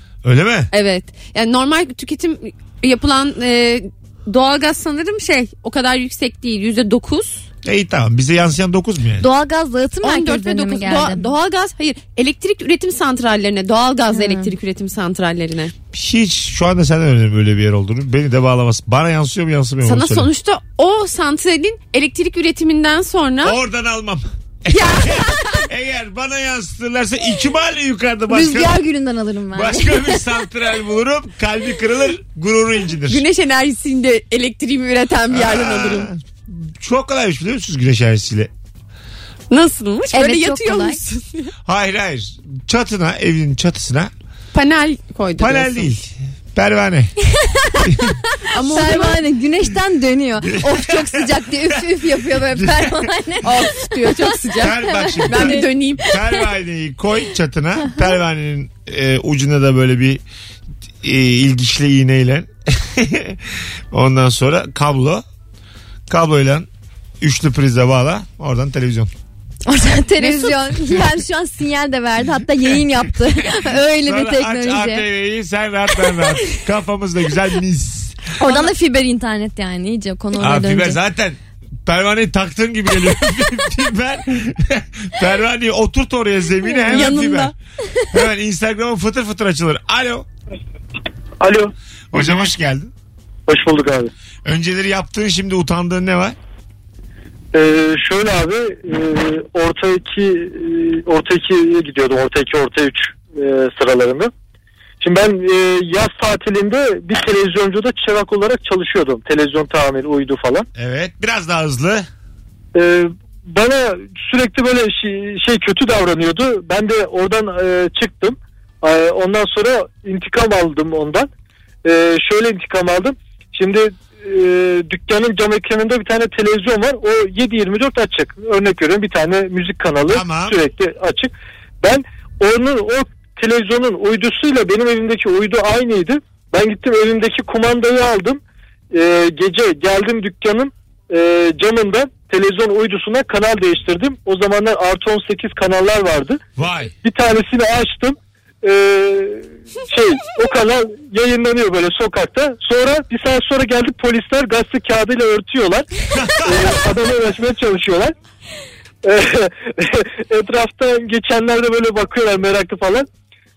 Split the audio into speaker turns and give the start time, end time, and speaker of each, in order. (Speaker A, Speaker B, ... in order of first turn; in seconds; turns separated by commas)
Speaker A: 0.2-0.7, Speaker B: 0.7-7.5, Speaker A: 7.6-9.2, Speaker C: 9.2-11.2, Speaker B: 10.0-15.7, Speaker C: 14.1-14.5, Speaker A: 15.9-20.3, Speaker B: 19.8-23.6, Speaker A: 23.4-28.8, Speaker B: 24.7-25.6, Speaker C: 28.3-30.3, Speaker A: 29.5-33.2, Speaker B: 33.1-36.1, Speaker A: 35.3-38.5, Speaker B: 39.5-41.5, Speaker C: 40.1-41.0, Speaker A: 41.6-44.1, Speaker B: 44.5-45.9, Speaker A: 45.4-47.1, Speaker C: 47.4-47.8, Speaker A: 47.9-48.1, Speaker B: 48.5-49.2, Speaker C: 48.6-56.4, Speaker A: 50.4-53.1, Speaker B: 53.4-56.0, Speaker A: 54.6-60.2, Speaker A: 61.0-65.2, Speaker A: 66.1-66.7, Speaker A: 67.2-69.1, Speaker C: 69.7-75.0, Speaker B: 70.2-70.7, Speaker A: 74.0-78.2, Speaker B: 78.4-78.7, Speaker C: 78.4-81.0, Speaker A: 80.4-87.5, Speaker B: 86.9-87.5, Speaker A: 88.1-90.3, Speaker D: 91.4-91.7, Speaker A: 92.1-92.9, Speaker D: 93.5-94.1, Speaker A: 94.4-96.3, Speaker D: 97.5-104.3, Speaker D: 105.0-110.7, Speaker A: 110.8-112.1, Speaker D: 112.7-121.3, Speaker D: 121.8-146.4, Speaker A: 130.1-130.6, Speaker A: 146.6-146.9, Speaker D: 147.0-155.9, Speaker A: 156.2-156.7, Speaker D: 156.4-158.1, Speaker D: 159.0-163.1